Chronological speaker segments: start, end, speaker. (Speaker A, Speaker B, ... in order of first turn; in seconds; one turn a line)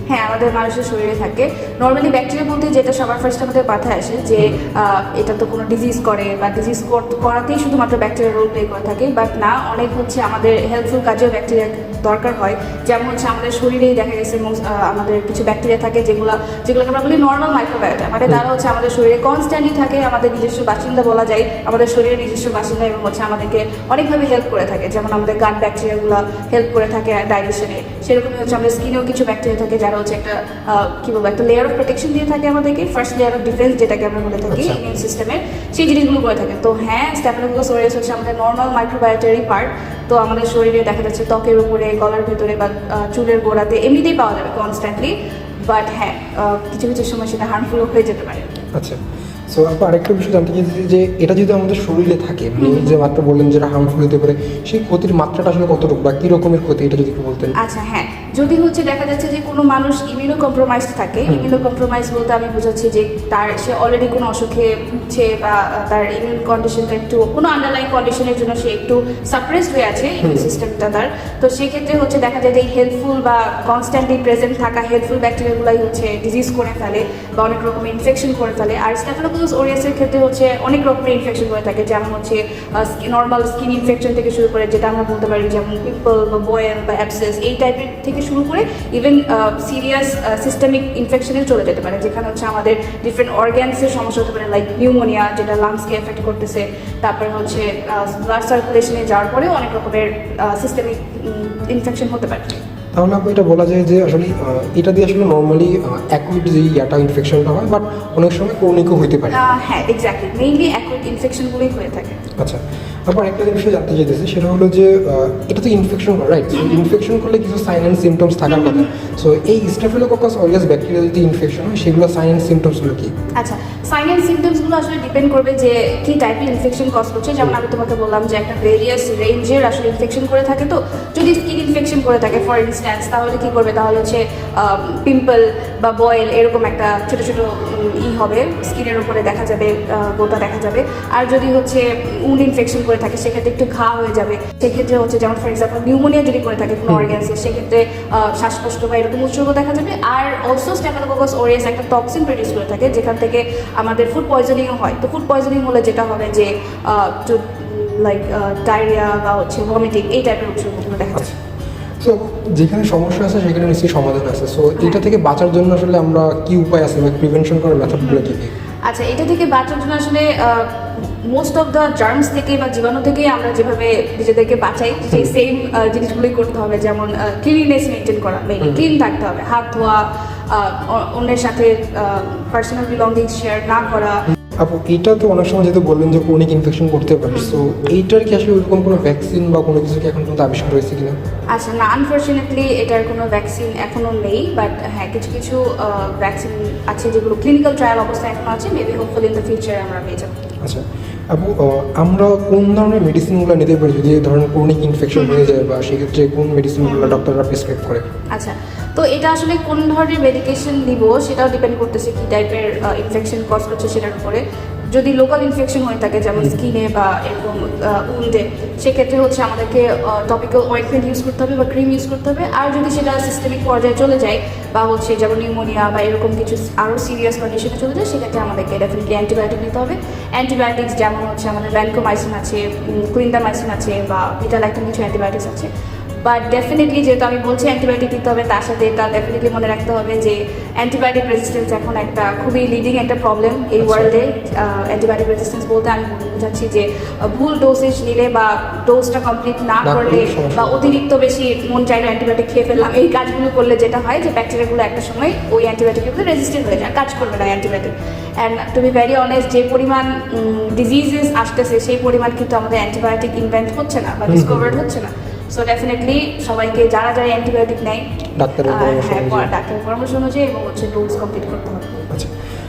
Speaker A: 0.1-45.1
Speaker B: 34.5-34.8
Speaker A: 45.7-48.5
Speaker B: 49.5-57.5
Speaker A: 52.6-53.0
Speaker A: 57.6-102.6
Speaker B: 70.2-70.5
Speaker B: 102.9-109.4
Speaker A: 109.3-112.2
Speaker B: 112.4-123.1
Speaker A: 116.5-116.8
Speaker A: 118.5-118.8
Speaker A: 123.4-161.3
Speaker B: 146.9-147.1
Speaker B: 162.0-168.5
Speaker A: 168.0-168.3
Speaker A: 168.9-184.2
Speaker B: 184.6-191.2
Speaker A: 187.3-187.6
Speaker A: 191.5-200.4
Speaker B: 200.6-208.0
Speaker A: 205.1-205.5
Speaker A: 206.8-207.2
Speaker A: 208.3-235.7
Speaker A: 236.2-268.1
Speaker B: 243.8-244.1
Speaker B: 249.8-251.0
Speaker B: 264.3-264.8
Speaker B: 268.4-269.5
Speaker A: 268.6-272.0